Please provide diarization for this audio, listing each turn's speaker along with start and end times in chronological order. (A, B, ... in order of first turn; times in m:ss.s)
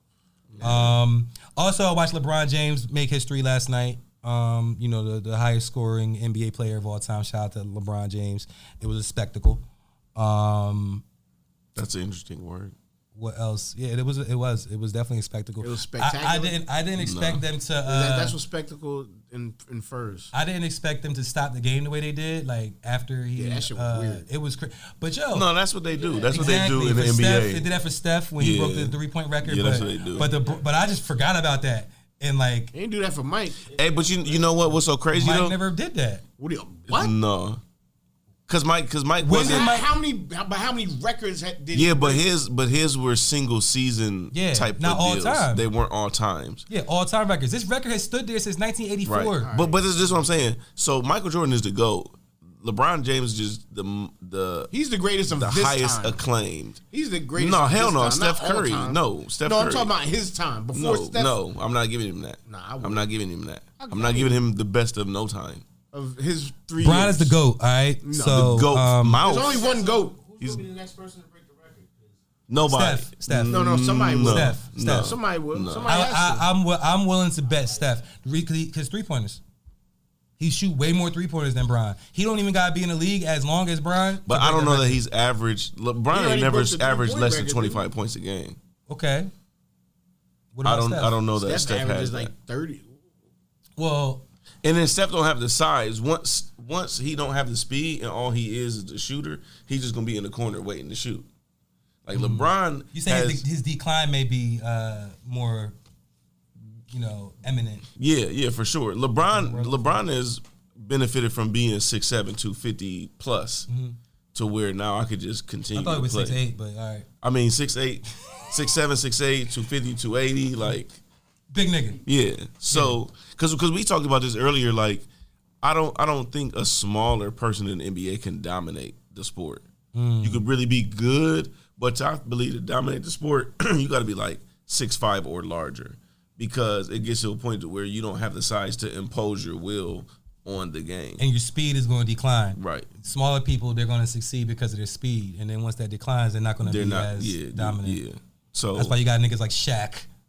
0:00.5-0:00.9 A
0:00.6-0:00.9 B
0:00.6-0:09.6 C
0:10.2-0:11.0 C
0:11.8-0:12.8 A
0:13.1-0:18.4 C
0:15.6-0:16.6 B
0:17.0-0:17.4 A
0:17.8-0:20.3 B
0:20.3-0:25.5 C
0:23.4-0:24.3 B
0:25.3-0:27.7 A
0:25.9-0:27.0 D
0:26.3-0:32.7 C
0:28.4-0:30.3 A
0:29.7-0:30.6 D
0:32.7-0:33.7 B
0:33.7-0:34.7 D
0:33.8-0:35.6 A
0:35.1-0:36.2 C
0:36.4-0:37.1 B
0:36.9-0:37.6 A
0:38.5-0:39.7 A
0:39.2-0:39.9 C
0:39.3-0:42.3 B
0:41.7-0:46.7 A
0:44.3-0:45.6 C
0:46.7-0:49.5 C
0:49.0-0:54.7 A
0:49.4-0:50.3 B
0:54.7-0:56.2 B
0:55.3-0:56.8 A
0:56.9-1:01.4 B
0:57.4-0:59.9 A
1:00.7-1:05.6 A
1:02.5-1:03.1 B
1:03.8-1:04.4 B
1:05.9-1:07.4 B
1:06.8-1:09.2 C
1:08.0-1:08.5 B
1:08.3-1:09.7 A
1:09.2-1:10.2 B
1:09.3-1:12.2 D
1:12.5-1:15.9 A
1:12.6-1:15.2 C
1:13.5-1:16.4 B
1:15.9-1:19.4 C
1:17.4-1:18.1 D
1:20.4-1:25.0 C
1:24.3-1:28.6 A
1:26.1-1:27.9 B
1:28.9-1:29.3 C
1:30.5-1:31.2 C
1:30.6-1:32.3 A
1:31.3-1:32.9 B
1:33.8-1:34.2 C
1:34.6-1:41.3 A
1:42.0-1:43.4 A
1:42.1-1:45.8 C
1:46.9-1:47.9 C
1:48.0-1:53.7 A
1:49.3-1:50.0 C
1:53.7-1:54.0 C
1:54.3-1:56.4 A
1:55.7-1:57.1 C
1:57.2-2:01.0 A
2:01.5-2:02.0 C
2:02.0-2:05.1 A
2:02.7-2:03.0 C
2:05.6-2:09.7 A
2:09.9-2:10.5 C
2:10.2-2:21.2 A
2:21.2-2:28.0 C
2:22.6-2:22.9 A
2:26.6-2:28.9 A
2:28.8-2:30.1 C